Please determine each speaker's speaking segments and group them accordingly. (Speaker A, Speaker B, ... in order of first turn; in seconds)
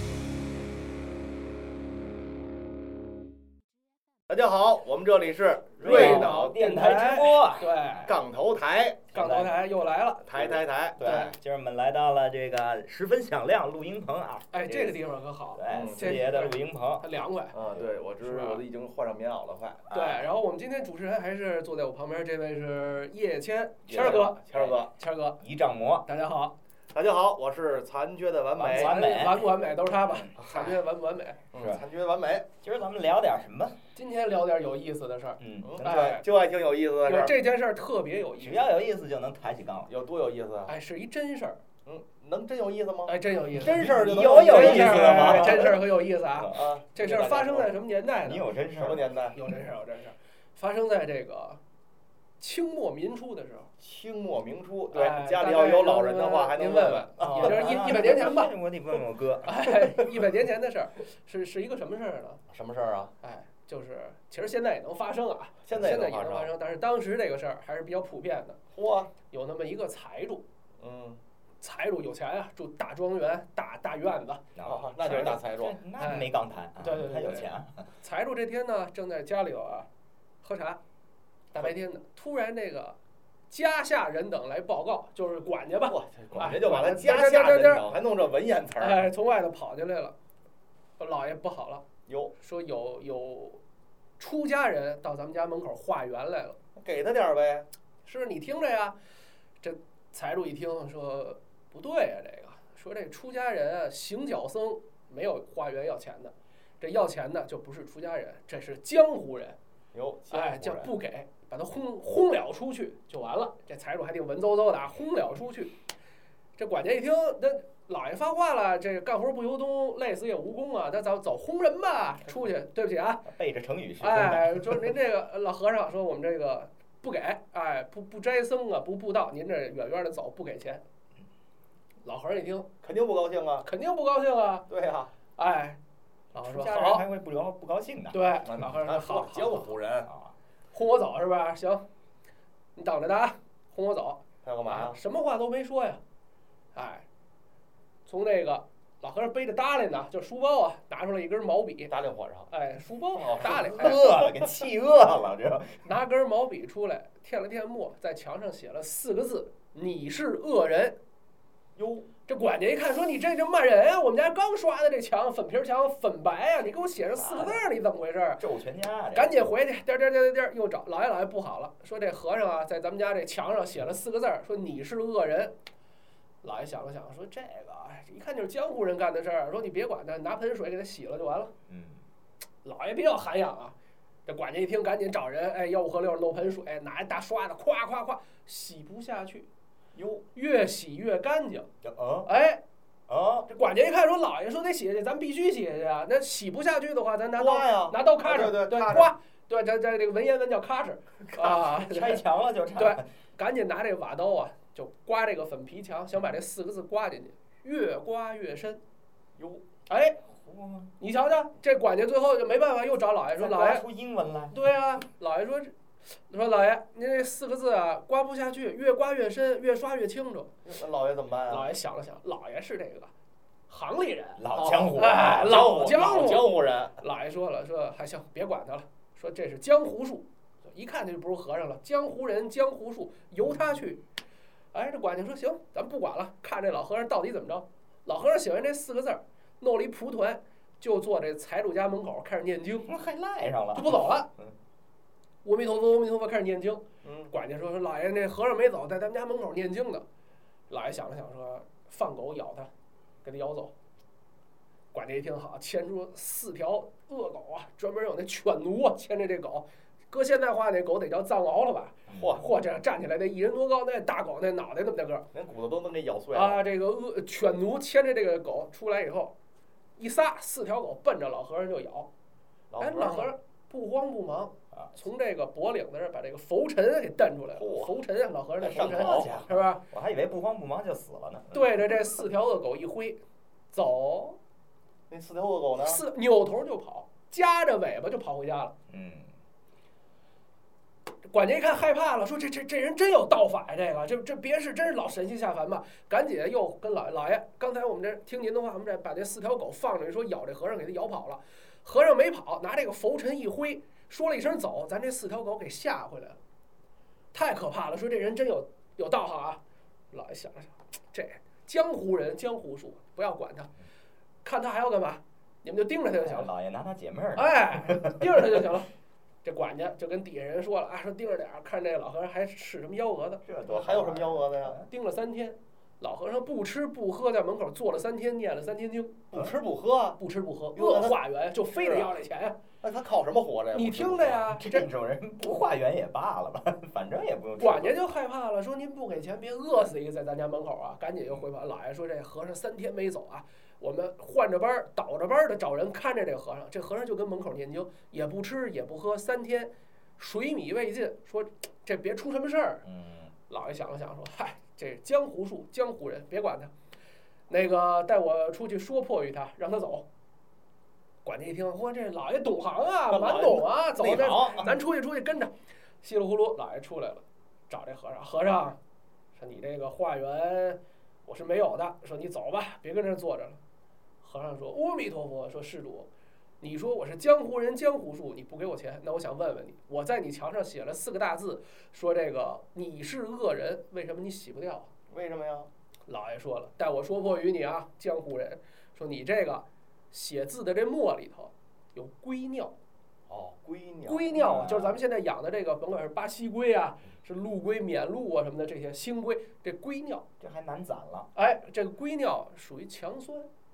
Speaker A: 4.3-6.5, 8.1-9.1, 10.3-11.3, 15.7-16.3, 17.5-19.8, 23.9-24.9, 26.9-28.9, 30.4-30.8, 31.5-32.5, 35.6-37.3, 39.9-40.7, 41.9-45.7, 46.5-47.7, 48.7-49.4, 53.8-58.1, 62.5-63.1, 65.7-66.5, 68.7-69.1, 70.8-71.2, 74.6-75.8, 85.9-89.1, 92.1-92.3, 96.8-97.7, 109.9-111.0, 132.8-133.7, 134.7-135.1, 138.4-140.1, 144.4-145.0, 151.9-152.5, 153.2-154.4, 161.8-162.1, 189.9-190.2, 197.4-199.1, 209.4-209.6, 220.7-221.7, 224.5-227.0, 247.0-247.3, 262.1-262.4, 265.3-266.6, 272.7-273.3, 277.6-277.9, 278.6-279.5, 285.1-286.0, 323.7-324.8, 329.3-330.2, 330.7-332.2, 332.8-334.5, 363.1-363.7, 385.1-385.7, 393.3-394.4
Speaker B: 5.8-7.8, 9.1-9.6, 11.0-15.0, 15.5-17.1, 19.9-20.3, 23.9-24.8, 25.4-26.1, 28.6-29.5, 31.6-31.8, 32.6-33.8, 35.4-36.1, 38.4-39.9, 43.6-45.8, 48.2-49.1, 57.2-59.6, 74.5-77.9, 123.2-124.9, 136.4-138.3, 140.1-140.3, 153.4-155.9, 167.0-167.6, 168.4-169.3, 181.7-182.0, 191.8-192.3, 193.1-193.5, 201.3-203.1, 210.2-210.9, 213.3-214.6, 224.4-225.8, 242.8-244.6, 262.1-262.4, 278.7-281.9, 288.9-289.3, 316.2-318.7, 323.4-324.9, 334.5-338.1, 352.9-353.3, 364.0-364.8, 394.4-395.0, 400.4-401.3
Speaker C: 5.8-8.1, 9.1-11.3, 14.5-17.6, 18.2-18.6, 19.9-25.4, 26.1-26.5, 28.7-31.4, 34.0-36.2, 37.0-38.7, 40.7-41.6, 43.1-48.5, 49.3-51.6, 52.4-53.7, 54.9-58.5, 59.5-62.4, 63.2-68.6, 69.3-70.4, 71.6-74.4, 76.0-77.5, 78.0-79.9, 80.4-80.8, 81.5-83.0, 83.5-88.0, 88.8-90.1, 91.0-91.8, 92.4-93.6, 94.2-96.6, 98.1-98.9, 99.6-109.6, 110.3-115.7, 116.6-123.3, 124.0-130.8, 132.0-132.7, 133.6-134.7, 135.4-135.8, 136.3-137.1, 138.1-139.7, 140.7-141.8, 142.8-146.0, 146.8-147.1, 148.1-151.9, 152.5-154.0, 155.8-161.0, 162.3-168.4, 169.1-175.5, 176.4-181.5, 182.6-183.8, 184.3-189.5, 190.3-191.7, 192.3-192.6, 193.5-202.2, 202.8-208.8, 209.9-210.2, 211.0-213.8, 214.5-215.7, 216.3-220.5, 221.5-223.1, 223.7-224.4, 224.9-234.0, 234.7-242.9, 243.8-244.3, 245.4-250.1, 250.7-252.7, 253.2-253.7, 254.9-265.3, 266.3-269.3, 270.0-272.1, 272.8-279.8, 281.5-283.2, 283.7-284.4, 285.8-288.7, 291.3-306.4, 307.3-309.6, 310.1-313.7, 314.4-316.5, 317.4-318.9, 319.4-323.4, 324.9-329.3, 330.2-332.6, 333.7-334.9, 337.6-352.8, 353.5-356.7, 357.5-360.1, 361.2-365.5, 366.0-368.8, 369.4-373.6, 374.2-376.1, 376.6-384.9, 386.1-392.7, 394.1-400.2, 401.4-403.5